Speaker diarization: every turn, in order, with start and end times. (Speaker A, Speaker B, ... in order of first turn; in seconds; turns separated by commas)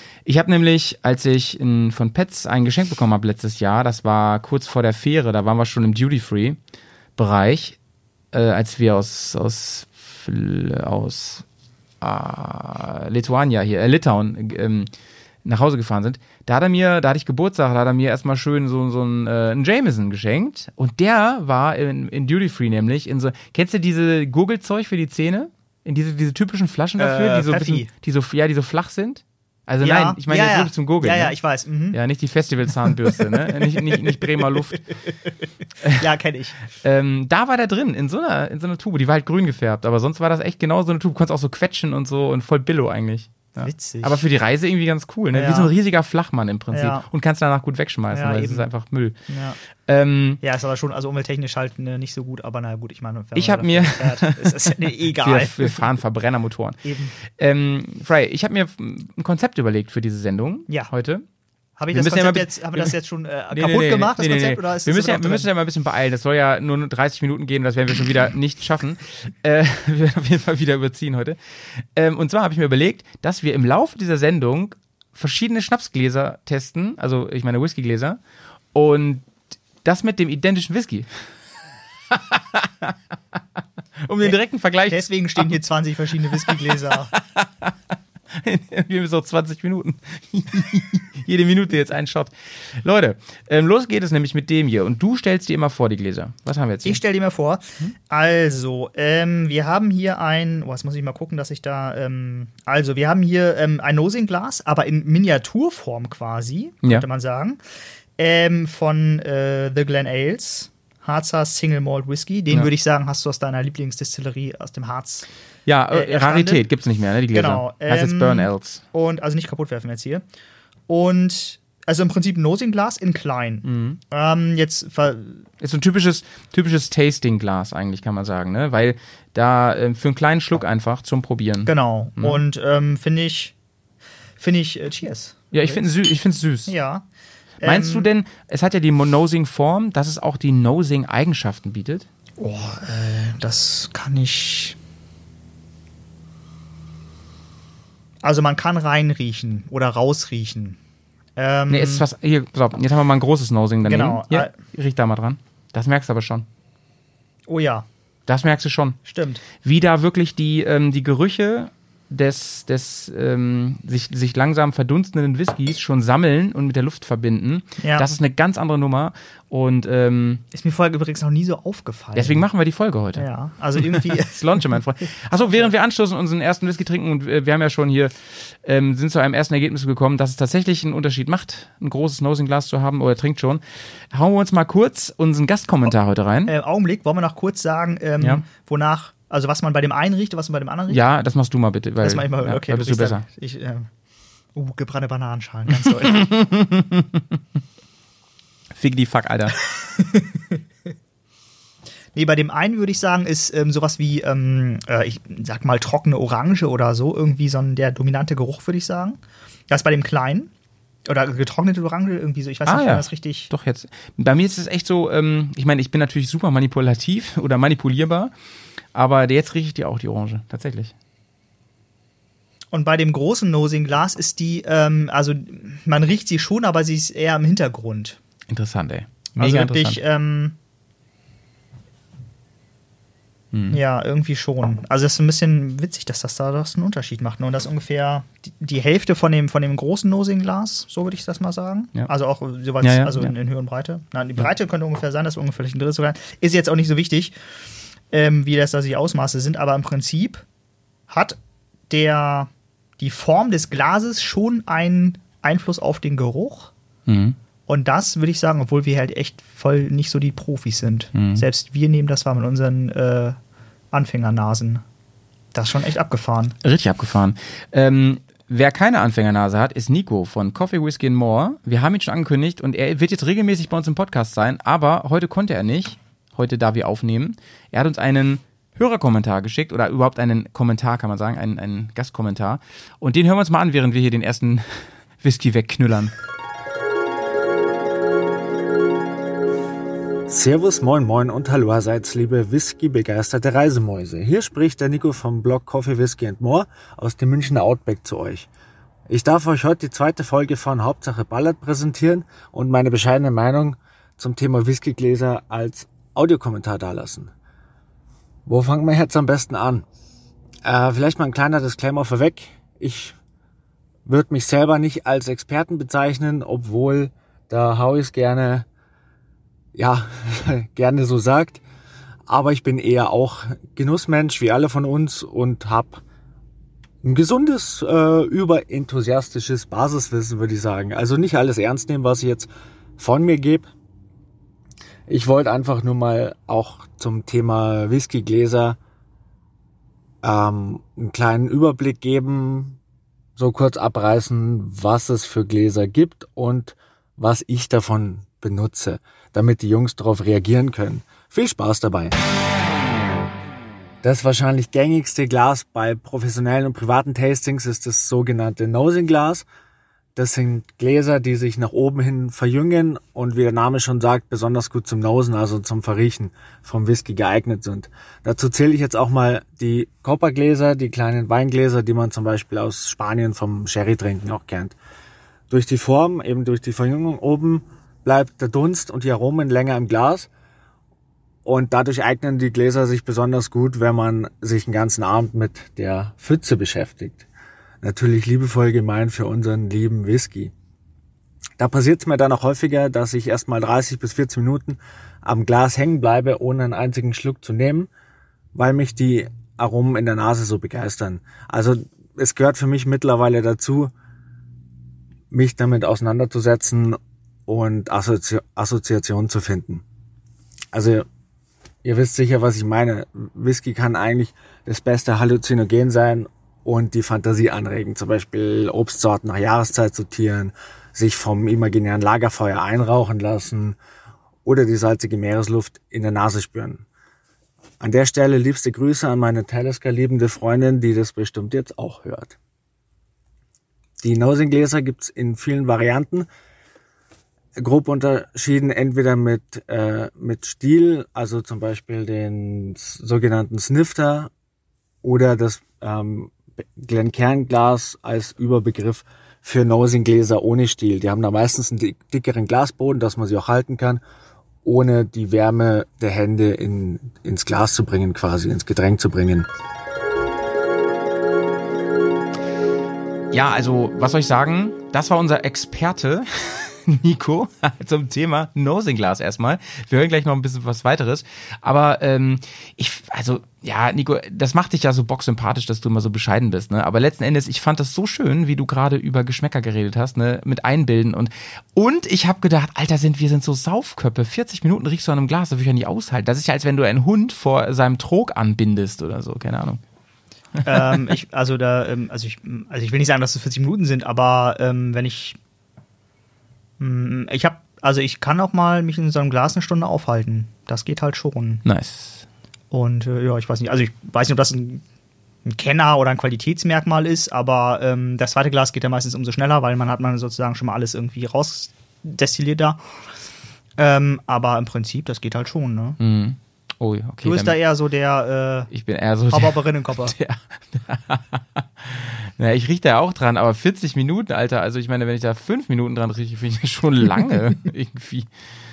Speaker A: 0.2-6.6, Speaker A: 7.2-7.8, Speaker A: 8.3-11.4, Speaker A: 12.0-14.9, Speaker A: 15.4-31.3, Speaker B: 27.0-27.9, Speaker B: 29.8-32.0, Speaker A: 31.9-34.8, Speaker B: 32.8-35.3, Speaker B: 35.9-36.6, Speaker A: 36.8-49.2, Speaker B: 43.6-44.2, Speaker B: 45.3-45.7, Speaker B: 46.7-47.1, Speaker B: 48.1-48.7, Speaker B: 49.3-49.6, Speaker A: 49.9-50.4, Speaker B: 50.4-55.9, Speaker A: 53.4-61.2, Speaker B: 56.8-57.1, Speaker B: 61.8-65.5, Speaker A: 61.9-63.0, Speaker A: 63.5-78.2, Speaker A: 78.7-79.3, Speaker A: 79.8-81.3, Speaker A: 82.1-83.4, Speaker A: 84.0-85.4, Speaker B: 84.9-87.1, Speaker A: 86.4-87.8, Speaker A: 88.3-97.0, Speaker B: 96.8-107.6, Speaker B: 108.2-115.2, Speaker A: 115.7-118.8, Speaker B: 115.9-116.6, Speaker B: 117.3-120.2, Speaker B: 120.9-125.4, Speaker A: 123.6-124.0, Speaker A: 125.6-132.4, Speaker B: 131.7-133.5, Speaker B: 134.4-135.8, Speaker A: 135.5-136.7, Speaker B: 136.7-137.0, Speaker B: 137.6-138.1, Speaker A: 137.6-142.1, Speaker B: 142.4-144.8, Speaker B: 148.2-150.8, Speaker B: 151.4-152.1, Speaker A: 151.7-156.5, Speaker B: 153.8-154.5, Speaker B: 157.5-157.9, Speaker A: 158.3-159.0, Speaker B: 159.1-159.4, Speaker A: 159.6-170.4, Speaker B: 167.8-168.1, Speaker B: 170.5-172.4, Speaker A: 172.2-173.2, Speaker B: 173.2-174.8, Speaker A: 173.8-186.5, Speaker B: 175.3-175.7, Speaker B: 186.5-191.0, Speaker A: 190.9-193.2, Speaker B: 192.0-193.9, Speaker B: 194.6-196.3, Speaker A: 195.8-197.2, Speaker A: 198.8-199.6, Speaker B: 199.8-200.6, Speaker B: 202.2-209.2, Speaker B: 209.7-210.5, Speaker B: 211.1-213.5, Speaker A: 212.7-218.3, Speaker A: 218.9-220.9, Speaker B: 222.7-228.2, Speaker A: 228.5-230.0, Speaker B: 229.3-230.6, Speaker A: 233.5-233.8, Speaker B: 233.7-247.3, Speaker A: 242.8-243.3, Speaker B: 248.1-250.4, Speaker B: 251.1-251.4, Speaker B: 251.9-256.7, Speaker A: 257.1-257.4, Speaker B: 257.7-263.4, Speaker A: 261.1-261.4, Speaker B: 263.9-264.8, Speaker B: 265.5-266.6, Speaker A: 266.6-286.1, Speaker C: 290.3-298.5, Speaker C: 299.1-307.3, Speaker C: 308.5-309.9, Speaker C: 310.6-313.2, Speaker C: 314.1-318.7, Speaker C: 319.8-321.6, Speaker C: 322.3-326.0, Speaker C: 327.0-333.7, Speaker C: 335.1-338.8, Speaker C: 340.2-342.8, Speaker C: 343.4-352.1, Speaker C: 354.0-359.4, Speaker C: 360.2-374.8, Speaker C: 375.5-380.3, Speaker C: 381.4-387.2, Speaker C: 387.8-390.5, Speaker C: 391.6-397.9, Speaker C: 398.6-403.9, Speaker C: 405.3-409.8, Speaker C: 410.7-411.1, Speaker C: 411.8-423.8, Speaker C: 424.4-426.8, Speaker C: 427.8-432.4, Speaker C: 434.0-436.3, Speaker C: 437.6-444.3, Speaker C: 445.0-454.0, Speaker C: 454.6-459.5, Speaker A: 463.3-489.8, Speaker B: 490.7-495.4, Speaker B: 496.8-501.6, Speaker A: 501.6-502.2, Speaker B: 502.7-504.8, Speaker B: 505.5-512.8, Speaker B: 513.8-516.0, Speaker A: 516.0-517.6, Speaker B: 517.2-518.7, Speaker A: 518.7-528.3, Speaker B: 519.3-520.1